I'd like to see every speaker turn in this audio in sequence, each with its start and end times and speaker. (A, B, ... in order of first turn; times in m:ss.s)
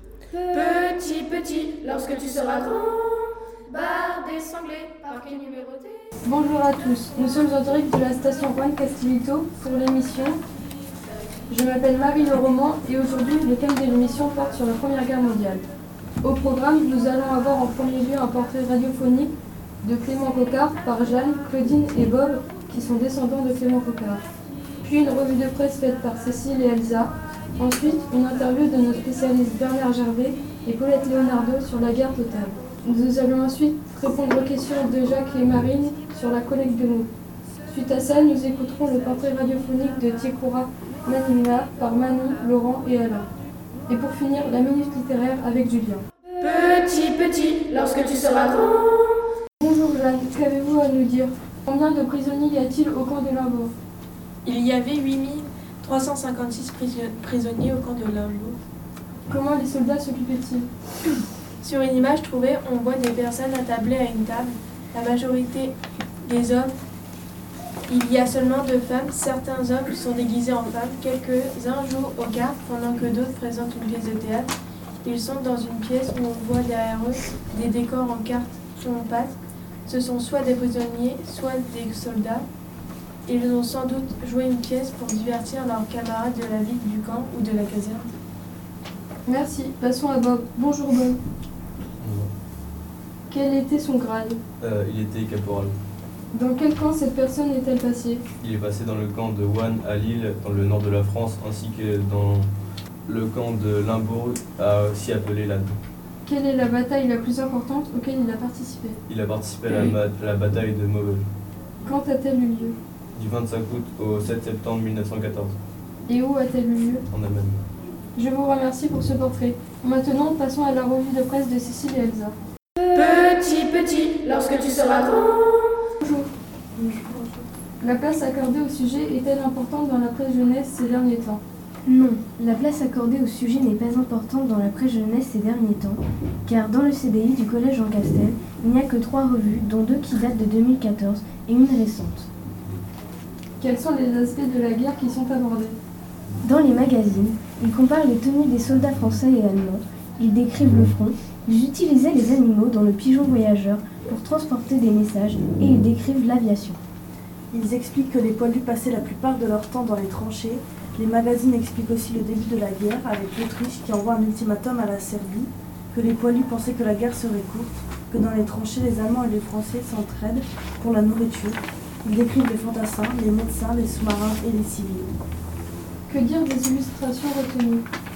0:00.3-0:06.1 A
0:06.2-0:10.4 B
0:11.5-0:15.6 B
0:16.2-0:24.2 B
0:24.8-0:37.1 B
0:37.6-0:43.3 B
0:43.9-0:46.0 B
0:47.2-0:47.6 C
0:49.6-0:53.7 B
0:54.4-0:58.6 C
0:59.3-1:00.7 B
1:01.6-1:05.7 C
1:06.2-1:06.7 C
1:07.9-1:14.5 C
1:15.0-1:19.3 C
1:19.9-1:22.4 C
1:23.3-1:28.1 C
1:29.2-1:31.2 B
1:32.0-1:32.3 D
1:33.3-1:34.4 B
1:34.6-1:35.7 D
1:36.3-1:38.2 B
1:38.4-1:42.5 D
1:43.1-1:45.8 D
1:46.2-1:49.0 B
1:49.1-1:51.2 D
1:51.8-1:52.8 B
1:53.2-1:55.6 D
1:56.1-1:57.0 B
1:57.1-1:57.6 D
1:58.2-2:02.4 B
2:06.0-2:06.3 B
2:07.8-2:11.4 B
2:11.9-2:22.3 E
2:23.6-2:25.8 B
2:26.4-2:36.8 E
2:37.5-2:55.1 F
2:56.1-2:57.8 B